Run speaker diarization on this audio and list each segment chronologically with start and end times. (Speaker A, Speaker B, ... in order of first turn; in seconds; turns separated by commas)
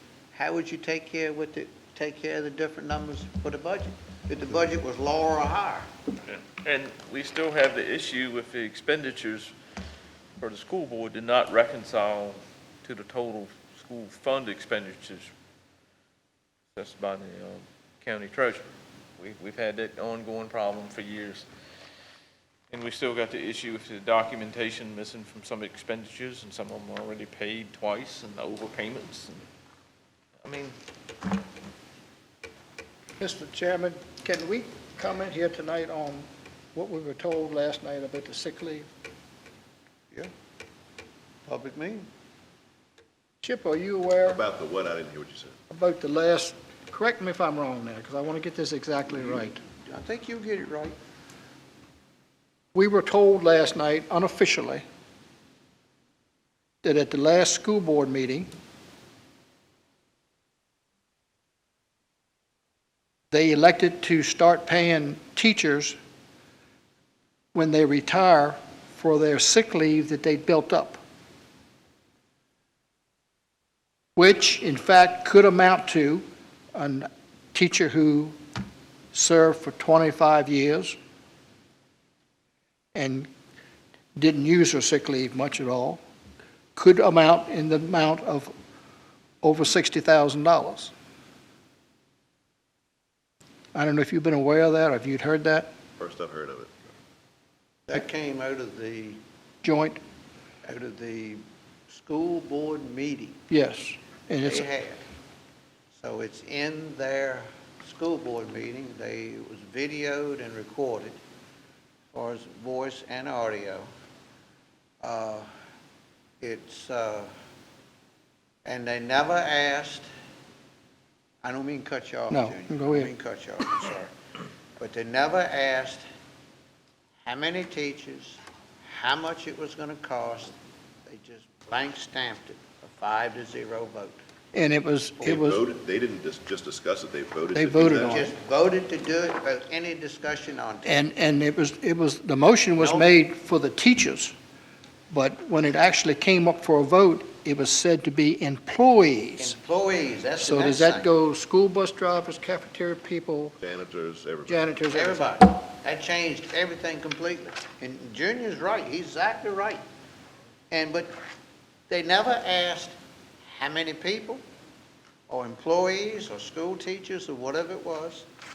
Speaker A: 0.3-5.9, Speaker B: 6.2-9.5, Speaker B: 10.4-15.3, Speaker B: 16.7-21.4, Speaker B: 22.7-29.4, Speaker B: 30.4-30.8, Speaker C: 33.2-38.9, Speaker A: 41.5-42.1, Speaker C: 43.4-44.4, Speaker D: 44.2-45.5, Speaker C: 45.7-49.6, Speaker A: 49.1-51.0, Speaker C: 52.7-54.8, Speaker C: 56.8-58.5, Speaker C: 63.3-66.0, Speaker C: 67.5-71.0, Speaker C: 74.2-76.2, Speaker C: 76.7-78.3, Speaker C: 79.1-81.0, Speaker C: 82.9-83.3, Speaker C: 84.2-86.0, Speaker C: 86.8-88.5, Speaker C: 89.4-90.9, Speaker C: 93.7-95.7, Speaker D: 96.0-96.7, Speaker A: 97.9-99.2, Speaker C: 99.6-100.0, Speaker A: 100.6-103.4, Speaker C: 103.5-104.7, Speaker A: 104.4-105.0, Speaker A: 105.9-111.2, Speaker A: 112.1-113.9, Speaker A: 115.0-115.5, Speaker A: 116.4-117.3, Speaker A: 118.6-120.1, Speaker A: 121.4-124.1, Speaker C: 122.3-123.1, Speaker A: 124.8-126.0, Speaker A: 127.2-130.5, Speaker A: 131.1-134.2, Speaker C: 134.5-135.6, Speaker D: 135.2-138.2, Speaker C: 137.5-138.3, Speaker A: 138.0-141.0, Speaker C: 140.8-144.3, Speaker A: 142.8-143.1, Speaker C: 145.1-149.6, Speaker A: 149.4-151.1, Speaker C: 150.4-153.6, Speaker D: 153.6-154.7, Speaker C: 154.5-155.3, Speaker A: 154.9-159.8, Speaker A: 160.7-161.1, Speaker A: 161.9-164.4, Speaker A: 165.3-168.3